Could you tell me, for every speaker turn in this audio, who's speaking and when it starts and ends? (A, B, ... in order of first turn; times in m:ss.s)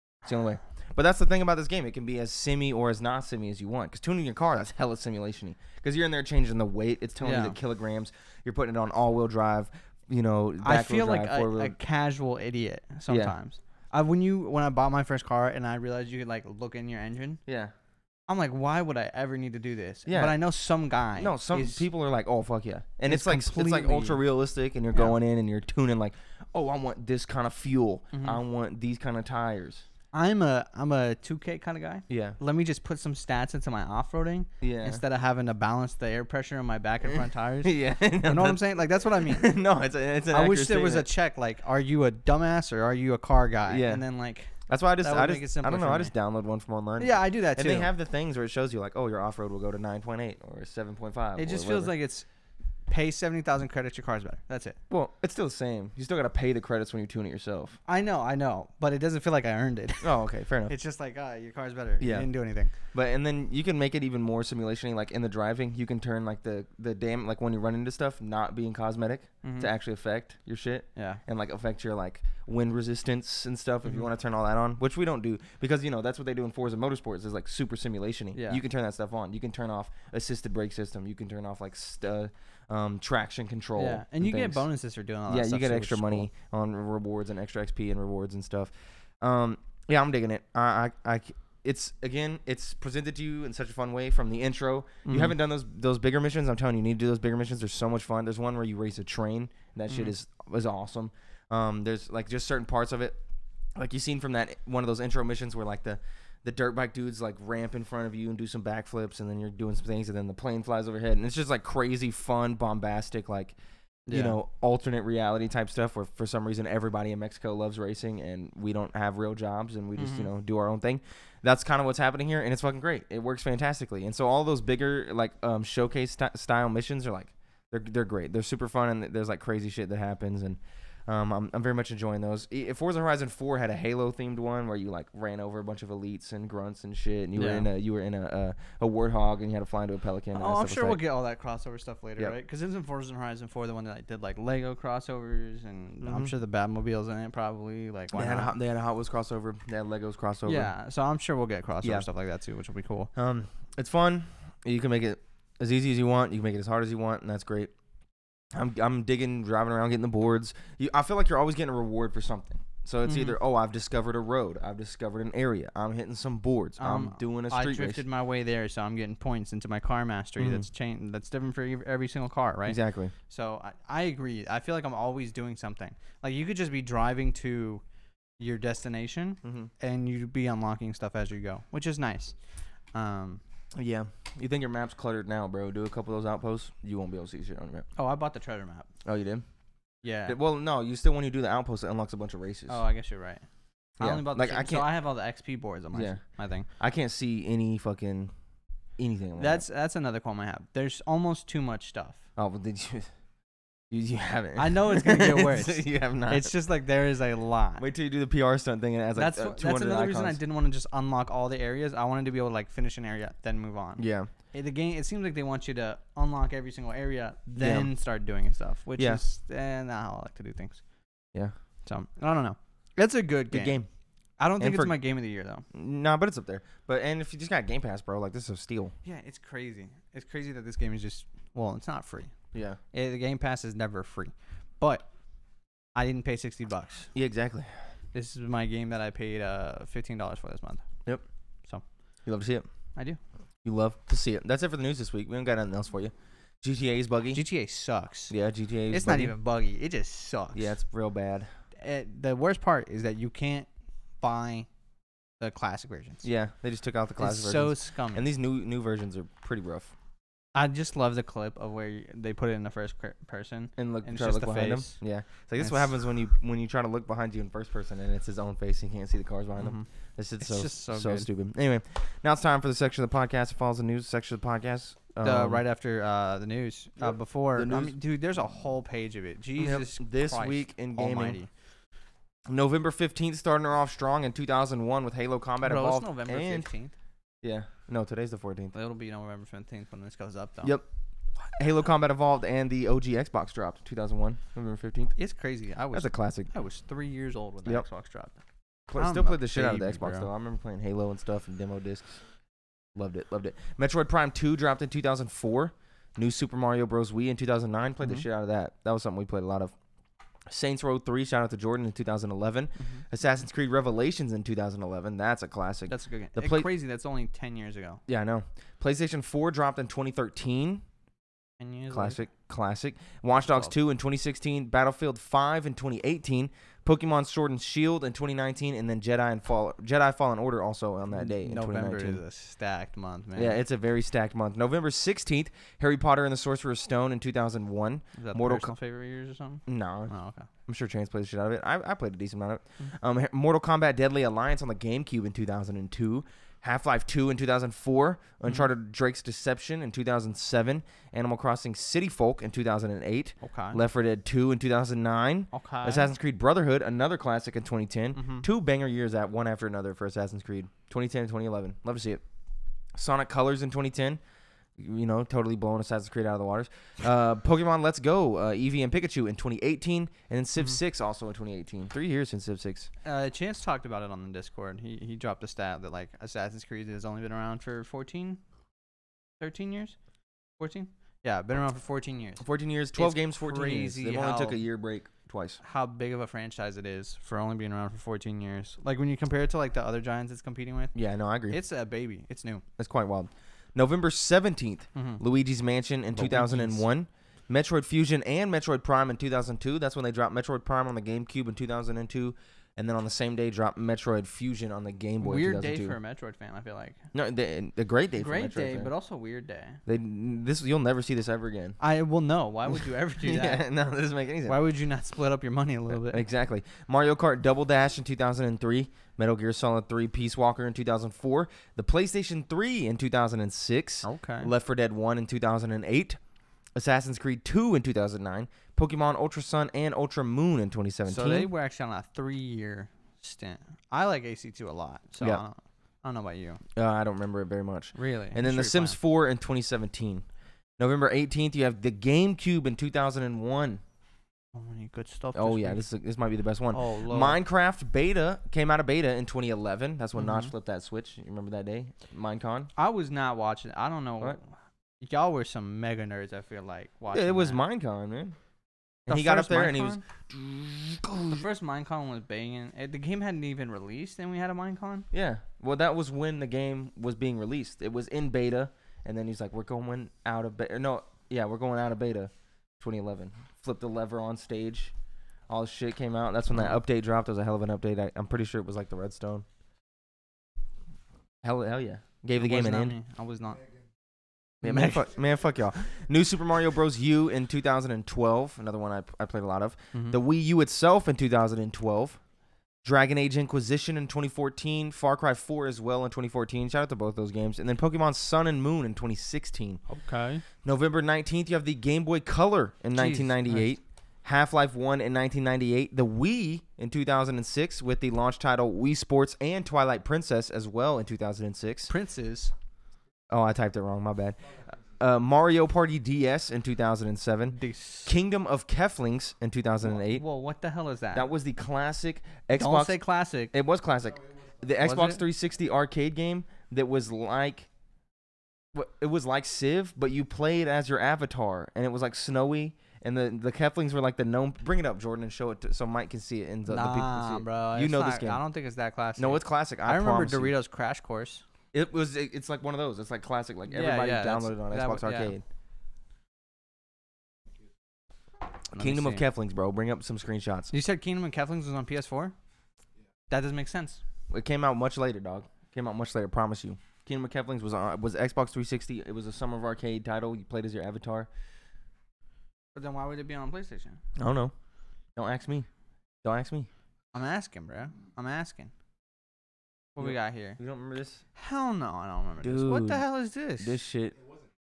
0:00.2-0:11.8 A
0:07.2-0:07.6 B
0:10.6-0:17.4 B
0:13.1-0:13.3 A
0:17.5-0:17.7 A
0:18.3-0:21.8 B
0:20.1-0:20.4 A
0:21.2-0:29.8 A
0:23.0-0:24.2 B
0:28.1-0:28.4 B
0:30.1-0:39.5 B
0:32.1-0:32.4 A
0:34.6-0:35.0 A
0:37.6-0:38.6 A
0:39.2-0:41.1 A
0:40.3-0:46.1 B
0:43.6-0:44.0 A
0:44.7-0:51.9 A
0:47.0-0:47.9 B
0:51.4-0:52.2 B
0:52.9-0:54.8 B
0:54.9-0:57.8 A
0:57.8-1:00.1 B
1:00.0-1:00.7 A
1:00.7-1:02.7 B
1:02.0-1:02.3 A
1:02.9-1:24.6 A
1:09.4-1:09.7 B
1:11.0-1:11.2 B
1:18.3-1:18.6 B
1:23.8-1:26.3 B
1:25.3-1:43.2 A
1:35.0-1:35.3 B
1:43.8-1:53.6 A
1:54.1-1:54.4 B
1:54.1-2:21.0 A
2:00.0-2:00.3 B
2:17.4-2:17.7 B
2:20.3-2:28.5 B
2:26.0-2:26.3 A
2:28.1-2:30.7 A
2:30.4-2:33.1 B
2:33.1-2:37.7 A
2:38.5-2:48.0 A
2:43.0-2:43.3 B
2:46.8-2:57.8 B
2:50.4-2:50.7 A
2:52.6-2:53.1 A
2:58.4-3:02.4 B
2:59.4-2:59.7 A
3:02.9-3:03.4 B
3:03.7-3:07.8 A
3:08.0-3:08.9 B
3:09.0-3:09.4 A
3:10.0-3:10.4 B
3:10.3-3:12.8 A
3:12.7-3:13.4 B
3:14.0-3:14.9 A
3:14.0-3:16.7 B
3:15.9-3:16.2 A
3:16.8-3:18.3 A
3:19.0-3:19.6 A
3:19.4-3:22.2 B
3:22.4-3:23.1 A
3:23.9-3:26.5 A
3:24.6-3:27.8 B
3:27.8-3:30.4 A
3:29.2-3:40.8 B
3:34.0-3:34.3 A
3:37.6-3:37.9 A
3:39.0-3:39.2 A
3:41.8-3:43.8 B
3:43.5-3:43.9 A
3:44.4-3:45.6 B
3:44.6-3:44.9 A
3:45.7-3:48.9 A
3:49.0-3:52.3 B
3:52.5-3:52.8 A
3:52.9-3:55.0 B
3:55.9-3:57.1 B
3:57.1-3:57.7 A
3:58.1-4:00.8 B
4:02.2-4:02.6 A
4:03.6-4:07.4 A
4:07.3-4:08.3 B
4:08.3-4:09.3 A
4:08.9-4:10.7 B
4:10.5-4:11.5 A
4:11.8-4:13.7 B
4:14.2-4:14.7 B
4:15.4-4:16.2 B
4:16.2-4:19.9 A
4:17.2-4:18.2 B
4:20.5-4:25.0 B
4:23.8-4:35.6 A
4:25.6-4:25.9 B
4:29.6-4:29.9 B
4:30.4-4:31.3 B
4:35.2-4:41.5 B
4:37.0-4:37.9 A
4:39.6-4:41.4 A
4:42.5-4:46.7 A
4:45.6-4:46.9 B
4:47.4-4:48.7 A
4:48.7-4:50.7 B
4:51.5-4:55.1 A
4:55.2-4:58.4 B
4:55.9-4:56.5 A
4:58.9-5:02.2 A
4:59.0-5:00.3 B
5:02.9-5:09.7 A
5:10.5-5:16.7 A
5:12.8-5:13.0 B
5:15.9-5:18.0 B
5:18.1-5:20.8 A
5:21.6-5:22.2 B
5:21.9-5:32.2 A
5:23.4-5:23.7 B
5:31.1-5:33.6 B
5:33.4-5:38.7 A
5:38.2-5:40.5 B
5:39.7-5:40.1 A
5:40.7-6:02.2 A
5:53.4-5:53.8 B
5:55.5-5:56.1 B
5:58.2-5:58.5 B
6:02.9-6:04.2 A
6:04.8-6:12.9 A
6:13.0-6:18.4 B
6:19.4-6:20.0 B
6:20.6-6:24.6 B
6:22.4-6:25.6 A
6:25.6-6:30.9 B
6:30.9-6:31.6 A
6:31.5-6:32.6 B
6:32.8-6:46.0 A
6:34.9-6:35.2 B
6:36.1-6:36.8 B
6:45.2-6:47.0 B
6:47.1-6:48.9 A
6:48.2-6:49.8 B
6:49.8-6:51.8 A
6:51.8-6:53.6 B
6:53.2-6:54.6 A
6:54.4-6:56.2 B
6:56.0-7:06.2 A
7:04.0-7:04.5 B
7:06.7-7:11.5 A
7:11.0-7:16.6 B
7:16.8-7:20.2 A
7:17.9-7:19.0 B
7:20.8-7:23.8 A
7:24.5-7:25.8 B
7:25.3-7:32.7 A
7:26.7-7:27.4 B
7:30.2-7:30.5 B
7:32.8-7:34.5 B
7:35.0-7:37.6 B
7:37.1-7:38.4 A
7:39.1-7:41.4 A
7:39.1-7:40.0 B
7:41.3-7:45.1 B
7:45.1-7:54.9 A
7:55.5-7:59.4 A
8:01.4-8:03.0 A
8:02.3-8:03.6 B
8:04.6-8:12.2 A
8:04.6-8:05.0 B
8:09.9-8:10.2 B
8:12.8-8:19.8 A
8:19.9-8:20.4 B
8:20.6-8:31.9 A
8:22.9-8:23.7 B
8:31.9-8:32.5 B
8:33.3-8:40.2 A
8:37.5-8:38.1 B
8:39.8-8:41.3 B
8:41.1-8:43.0 A
8:42.5-8:43.5 B
8:43.5-8:47.7 A
8:44.8-8:45.2 B
8:48.7-8:58.4 A
8:56.7-9:01.4 B
8:59.2-9:00.5 A
9:01.7-9:05.4 A
9:03.7-9:05.3 B
9:08.7-9:10.7 A
9:08.7-9:09.2 B
9:10.7-9:12.3 B
9:13.3-9:14.0 B
9:14.3-9:21.3 A
9:22.7-9:24.0 B
9:24.2-9:24.5 A
9:25.2-9:25.7 A
9:26.2-9:26.7 A
9:27.1-9:28.7 B
9:30.0-9:30.6 B
9:30.0-9:31.2 A
9:31.4-9:33.8 B
9:32.4-9:33.0 A
9:33.6-9:34.2 A